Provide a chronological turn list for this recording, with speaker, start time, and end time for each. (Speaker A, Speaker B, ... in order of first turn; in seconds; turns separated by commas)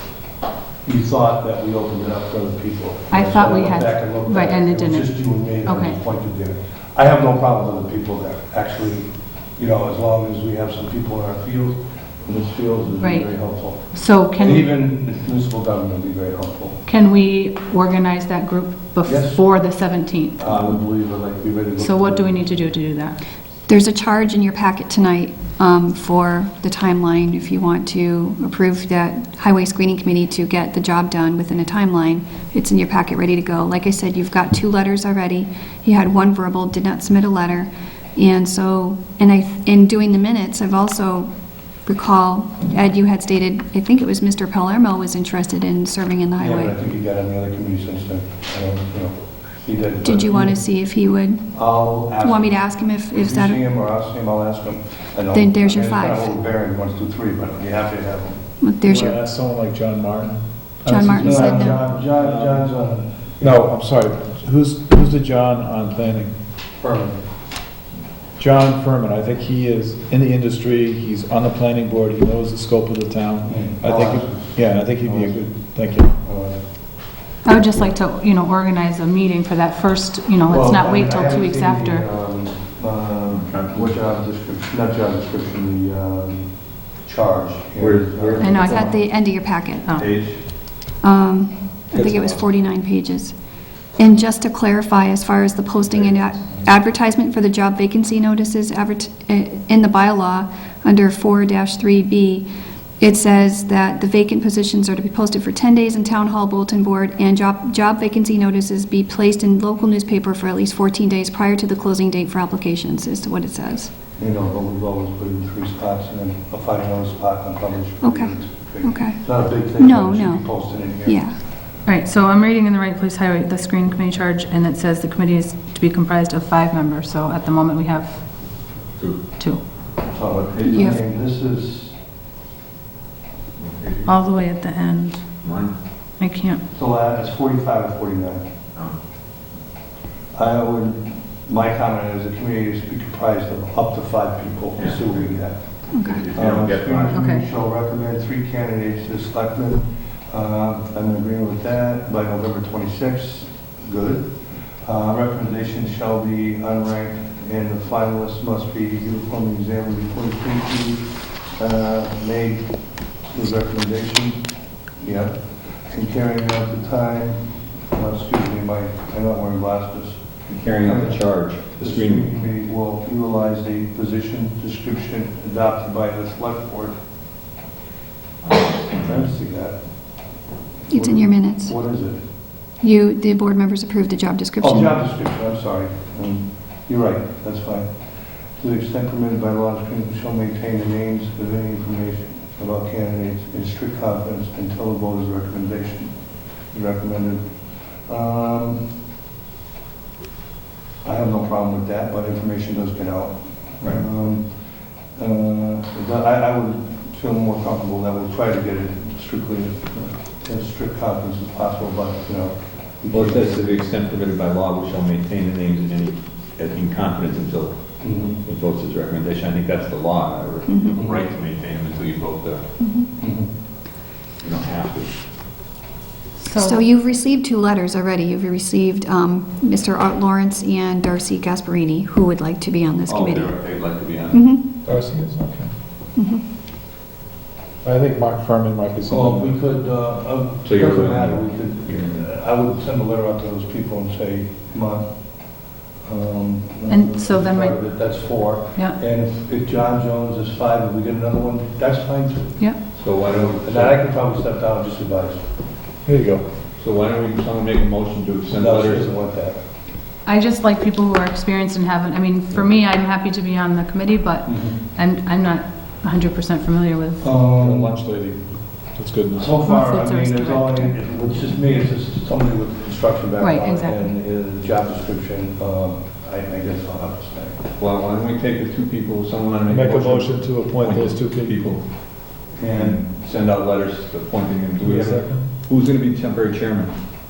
Speaker A: 0.8-16.9, Speaker B: 3.1-6.0, Speaker B: 13.0-13.3, Speaker B: 13.9-14.7, Speaker B: 16.9-20.4, Speaker A: 19.0-19.5, Speaker A: 20.4-22.7, Speaker B: 21.8-23.2, Speaker C: 23.7-41.3, Speaker C: 41.9-46.8, Speaker A: 46.4-50.7, Speaker C: 50.0-53.6, Speaker A: 51.5-58.5, Speaker C: 55.3-56.3, Speaker C: 58.6-59.2, Speaker D: 58.9-61.5, Speaker A: 60.8-63.7, Speaker C: 60.9-61.9, Speaker D: 62.2-62.6, Speaker D: 63.4-66.3, Speaker A: 66.8-67.2, Speaker D: 68.4-76.1, Speaker A: 73.5-77.0, Speaker B: 77.4-82.0, Speaker A: 80.5-88.9, Speaker E: 83.3-83.9, Speaker E: 87.8-89.3, Speaker C: 88.4-90.0, Speaker E: 89.9-90.5, Speaker C: 91.0-93.3, Speaker E: 92.0-92.4, Speaker C: 94.0-102.5, Speaker C: 103.0-113.9, Speaker A: 114.2-121.2, Speaker C: 118.0-121.4, Speaker B: 121.8-128.8, Speaker E: 128.9-129.3, Speaker B: 129.4-129.7, Speaker A: 129.9-132.0, Speaker C: 130.7-131.0, Speaker E: 133.6-134.2, Speaker B: 134.1-135.4, Speaker E: 135.4-135.8, Speaker B: 136.2-136.6, Speaker A: 136.7-138.5, Speaker A: 140.3-145.7, Speaker E: 144.8-145.2, Speaker E: 145.9-147.2, Speaker C: 145.9-146.2, Speaker A: 146.3-162.7, Speaker B: 147.1-147.5, Speaker A: 163.2-164.4, Speaker A: 165.0-177.0, Speaker E: 170.5-172.3, Speaker E: 178.4-179.1, Speaker A: 178.9-180.3, Speaker A: 180.9-182.3, Speaker C: 180.9-181.7, Speaker C: 182.8-185.0, Speaker A: 184.6-196.1, Speaker A: 196.7-198.9, Speaker A: 201.0-213.9, Speaker E: 213.1-217.9, Speaker A: 218.0-218.4, Speaker E: 218.4-222.7, Speaker C: 220.7-221.0, Speaker A: 221.0-221.2, Speaker C: 222.8-223.1, Speaker A: 223.2-223.5, Speaker E: 224.4-225.1, Speaker B: 226.5-226.9, Speaker C: 226.5-234.7, Speaker E: 233.1-234.5, Speaker D: 234.9-235.7, Speaker C: 236.2-236.4, Speaker D: 237.8-239.5, Speaker A: 239.1-255.5, Speaker E: 240.7-242.2, Speaker B: 246.9-247.8, Speaker B: 252.6-252.9, Speaker E: 252.9-254.0, Speaker D: 256.1-256.4, Speaker E: 256.8-259.1, Speaker A: 258.5-259.7, Speaker B: 260.2-267.3, Speaker A: 264.4-264.8, Speaker A: 267.2-268.0, Speaker D: 267.6-269.5, Speaker A: 269.3-277.7, Speaker B: 269.6-270.9, Speaker B: 273.4-274.0, Speaker E: 277.8-286.9, Speaker D: 279.7-281.6, Speaker A: 282.5-283.1, Speaker D: 284.8-285.5